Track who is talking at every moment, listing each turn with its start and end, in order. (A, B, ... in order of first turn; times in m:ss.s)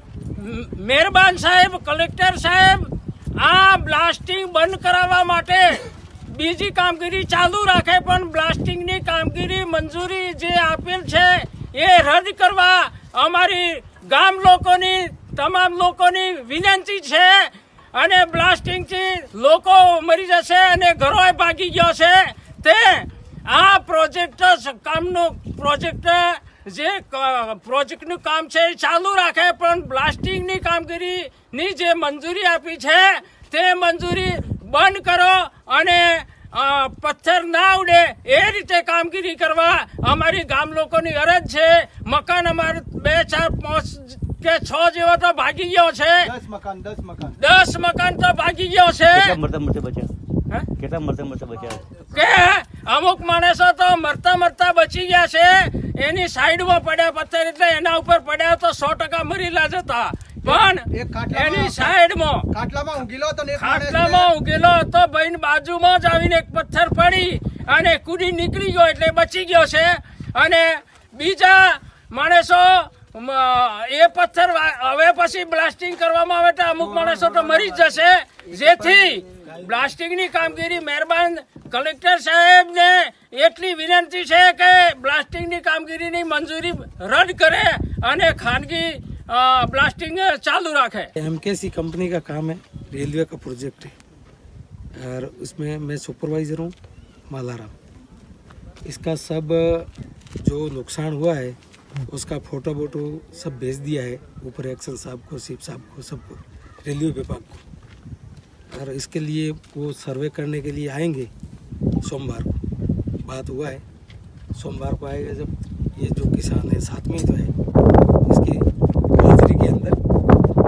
0:00.4-0:46.3 A
0:46.2-0:47.3 B
0:47.4-0:49.4 A
0:49.1-0:50.1 C
0:50.8-0:51.9 C
0:52.1-1:02.4 A
1:00.4-1:01.9 B
1:02.5-1:04.3 B
1:03.6-1:31.1 A
1:31.2-1:33.9 D
1:35.0-1:36.8 D
1:37.3-1:37.7 D
1:38.8-1:39.9 D
1:40.4-1:47.6 D
1:48.7-1:51.3 D
1:52.0-1:52.5 D
1:53.2-1:53.8 D
1:54.6-1:57.5 D
1:58.2-2:00.0 D